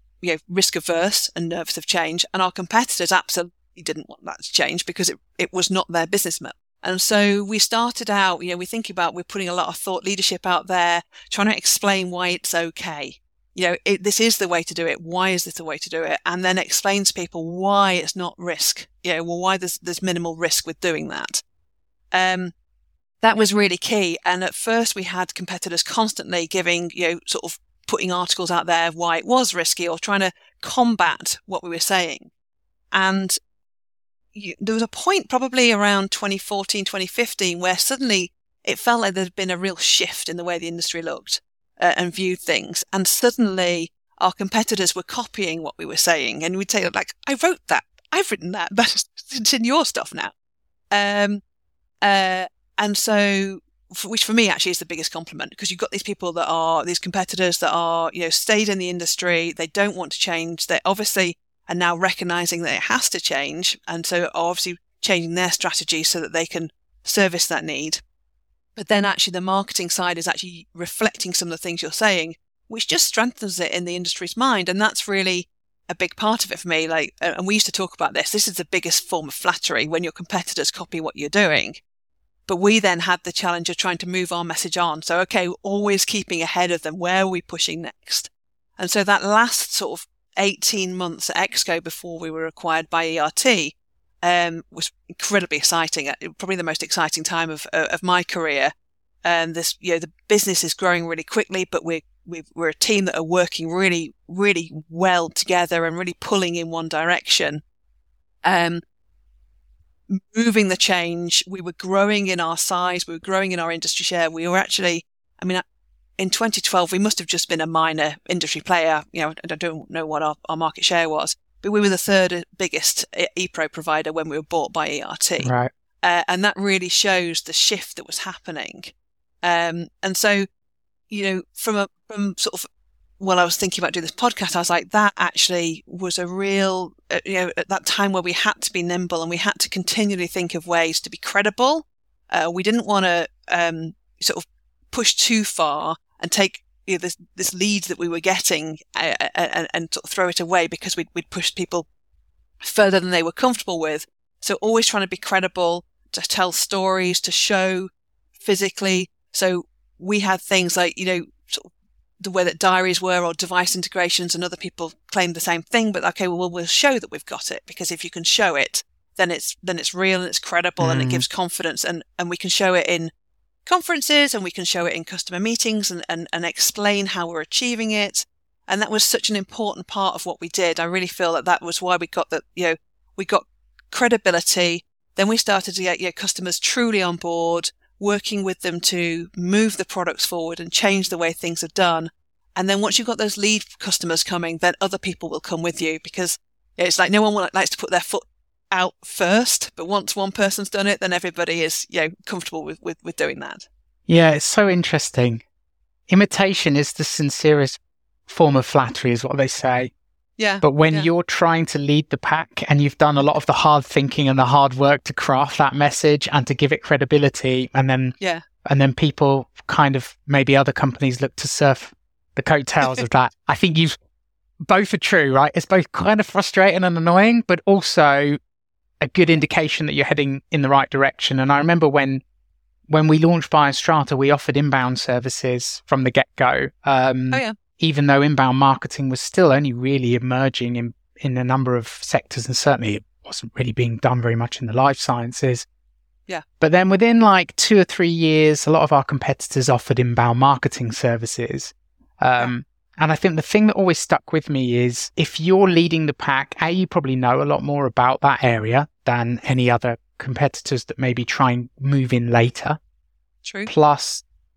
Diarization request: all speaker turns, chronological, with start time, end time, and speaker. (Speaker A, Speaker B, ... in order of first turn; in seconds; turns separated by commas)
Speaker A: 0.2-21.4, Speaker A: 22.1-22.5, Speaker A: 23.2-32.3, Speaker A: 32.9-33.4, Speaker A: 34.3-50.3, Speaker A: 50.9-51.4, Speaker A: 52.0-68.0, Speaker A: 68.8-81.8, Speaker A: 82.5-98.7, Speaker A: 99.2-107.6, Speaker A: 108.5-108.8, Speaker A: 110.1-115.6, Speaker A: 116.2-125.5, Speaker B: 125.4-125.7, Speaker A: 126.0-130.5, Speaker A: 131.1-132.7, Speaker A: 133.2-151.9, Speaker A: 152.6-173.1, Speaker B: 170.8-171.2, Speaker A: 173.7-203.7, Speaker B: 204.1-205.4, Speaker B: 206.1-209.9, Speaker A: 210.4-211.1, Speaker B: 210.6-224.0, Speaker A: 218.2-218.4, Speaker B: 224.6-228.4, Speaker B: 229.0-232.2, Speaker B: 232.9-245.7, Speaker B: 246.6-262.8, Speaker A: 263.4-263.7, Speaker B: 263.7-264.2